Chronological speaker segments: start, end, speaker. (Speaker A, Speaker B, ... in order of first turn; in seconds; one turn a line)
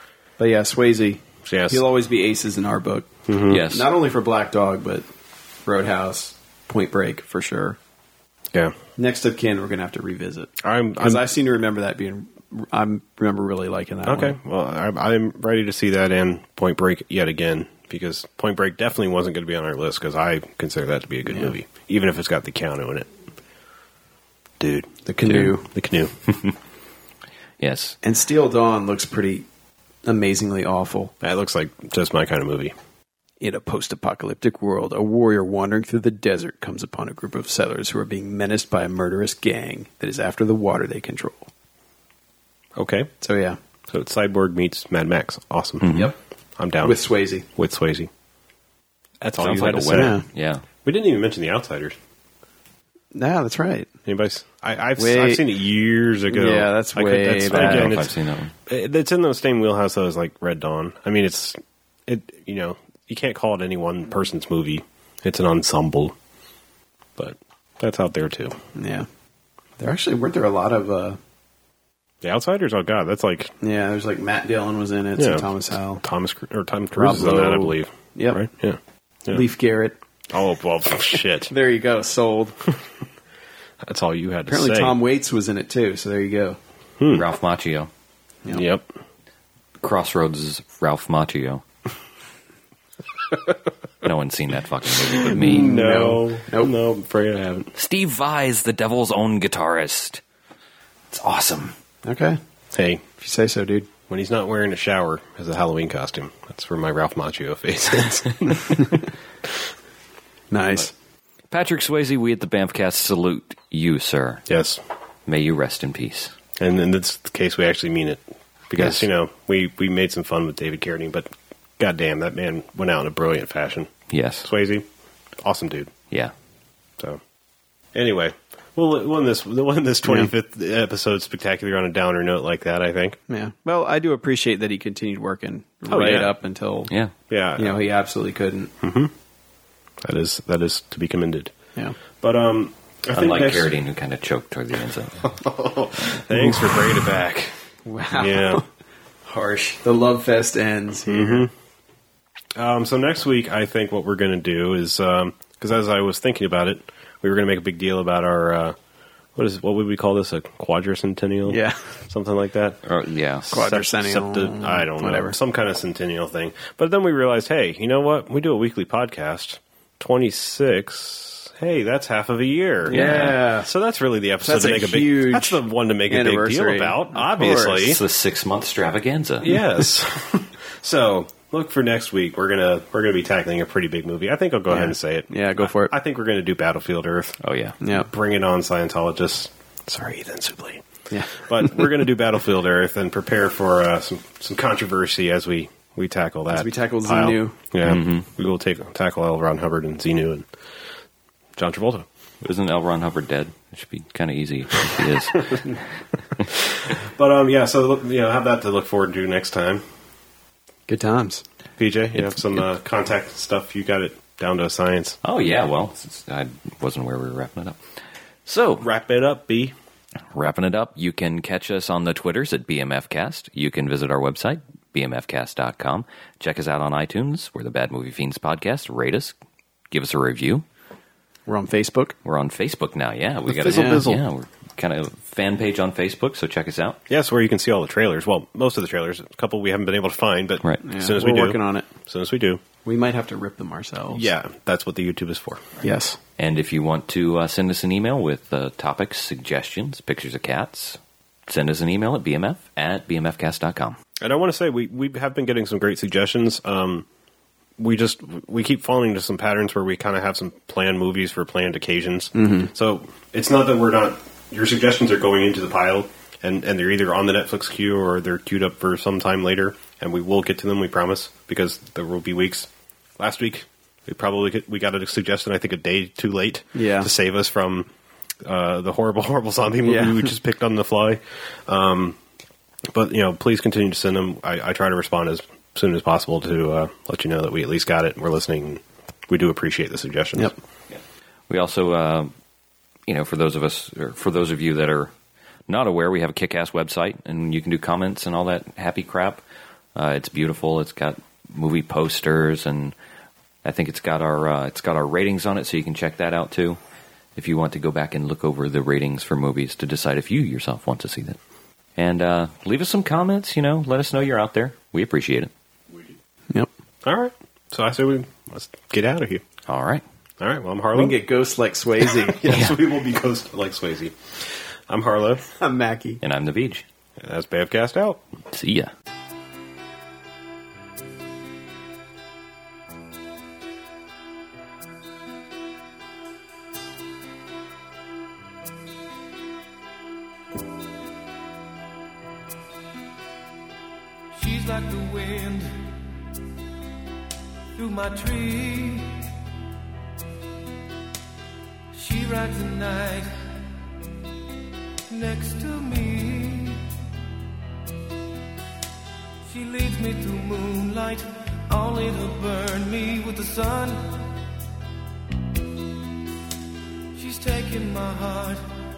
Speaker A: 0.4-5.0
Speaker B: 1.4-1.8
Speaker B: 3.3-3.6
Speaker C: 3.5-3.9
Speaker A: 5.7-7.8
Speaker A: 9.0-14.4
Speaker B: 10.6-11.2
Speaker B: 14.1-23.1
Speaker B: 24.6-24.9
Speaker A: 25.0-25.7
Speaker C: 25.3-25.5
Speaker B: 25.7-26.1
Speaker C: 26.3-26.5
Speaker C: 27.6-28.0
Speaker A: 28.0-29.4
Speaker A: 30.0-31.1
Speaker B: 31.2-32.7
Speaker A: 33.4-41.5
Speaker B: 42.8-43.1
Speaker A: 43.2-43.6
Speaker B: 43.9-45.9
Speaker C: 45.8-46.1
Speaker B: 46.5-48.1
Speaker A: 46.8-47.5
Speaker B: 49.2-50.2
Speaker C: 49.4-50.6
Speaker A: 49.9-50.2
Speaker B: 50.8-52.0
Speaker A: 53.1-53.9
Speaker B: 54.0-66.2
Speaker A: 55.0-55.6
Speaker A: 56.3-58.0
Speaker C: 57.5-58.5
Speaker B: 67.2-68.6
Speaker A: 68.7-69.1
Speaker A: 69.8-71.2
Speaker B: 72.2-73.5
Speaker A: 73.6-76.0
Speaker B: 75.2-75.5
Speaker B: 76.0-79.4
Speaker A: 76.9-78.4
Speaker A: 79.3-80.0
Speaker B: 80.3-81.5
Speaker A: 81.5-82.6
Speaker B: 83.8-85.0
Speaker A: 84.5-86.6
Speaker B: 87.0-87.2
Speaker C: 87.1-87.9
Speaker B: 88.5-89.0
Speaker C: 89.8-91.6
Speaker C: 94.0-95.7
Speaker B: 95.1-97.7
Speaker A: 95.3-96.7
Speaker C: 97.8-100.2
Speaker C: 101.1-101.8
Speaker A: 102.0-102.4
Speaker B: 102.7-103.0
Speaker A: 103.2-103.9
Speaker B: 104.1-109.1
Speaker A: 110.5-110.9
Speaker C: 111.5-114.5
Speaker B: 114.5-114.8
Speaker C: 115.3-116.3
Speaker B: 116.6-121.3
Speaker B: 121.8-123.9
Speaker C: 124.1-124.5
Speaker B: 124.4-124.8
Speaker B: 125.4-125.9
Speaker B: 127.9-133.2
Speaker A: 130.0-130.3
Speaker A: 133.3-136.9
Speaker B: 135.9-136.3
Speaker B: 137.3-137.8
Speaker A: 137.6-138.7
Speaker B: 138.8-139.1
Speaker B: 140.0-141.5
Speaker B: 142.2-143.7
Speaker C: 143.1-145.3
Speaker B: 145.2-147.5
Speaker A: 147.8-148.7
Speaker B: 148.2-148.6
Speaker A: 149.3-151.5
Speaker B: 151.1-151.5
Speaker B: 152.6-158.8
Speaker B: 159.3-162.8
Speaker A: 161.5-161.8
Speaker C: 162.8-163.5
Speaker B: 163.5-178.0
Speaker A: 163.5-165.4
Speaker A: 172.8-173.7
Speaker C: 172.9-173.4
Speaker A: 174.4-177.9
Speaker C: 177.8-179.6
Speaker B: 179.4-187.4
Speaker A: 184.7-185.9
Speaker C: 187.4-187.8
Speaker A: 187.8-188.1
Speaker B: 187.9-190.8
Speaker A: 191.1-191.9
Speaker B: 191.4-200.4
Speaker A: 196.5-197.6
Speaker C: 197.8-198.2
Speaker B: 201.6-202.1
Speaker C: 202.4-205.8
Speaker B: 206.4-209.8
Speaker A: 210.9-211.4
Speaker B: 211.8-215.2
Speaker C: 212.2-212.6
Speaker C: 215.2-217.8
Speaker C: 218.4-218.8
Speaker B: 218.8-219.7
Speaker C: 220.3-229.3
Speaker C: 229.9-230.6
Speaker A: 231.5-232.1
Speaker C: 232.2-237.0
Speaker B: 233.5-234.2
Speaker A: 233.7-234.0
Speaker B: 237.1-242.6
Speaker A: 240.8-241.9
Speaker A: 242.8-244.3
Speaker B: 244.1-245.7
Speaker A: 245.8-246.2
Speaker C: 246.4-254.0
Speaker B: 254.2-257.1
Speaker B: 257.8-277.9
Speaker A: 262.3-262.7
Speaker A: 276.7-277.1
Speaker B: 278.4-282.2
Speaker A: 279.8-280.3
Speaker B: 282.9-290.5
Speaker C: 291.5-292.3
Speaker C: 293.1-295.1
Speaker C: 295.7-299.4
Speaker C: 299.9-302.9
Speaker C: 303.6-306.8
Speaker C: 307.4-311.4
Speaker C: 311.9-315.5
Speaker B: 317.0-319.4
Speaker C: 319.7-320.0
Speaker B: 320.4-321.2
Speaker A: 320.9-322.4
Speaker B: 322.0-325.5
Speaker C: 322.4-322.8
Speaker A: 325.6-326.2
Speaker C: 326.2-326.8
Speaker B: 327.2-328.2
Speaker C: 328.5-328.9
Speaker D: 344.3-345.7
Speaker D: 347.8-349.1
Speaker D: 351.9-353.3
Speaker D: 355.1-356.8
Speaker D: 359.4-364.0
Speaker D: 367.1-368.6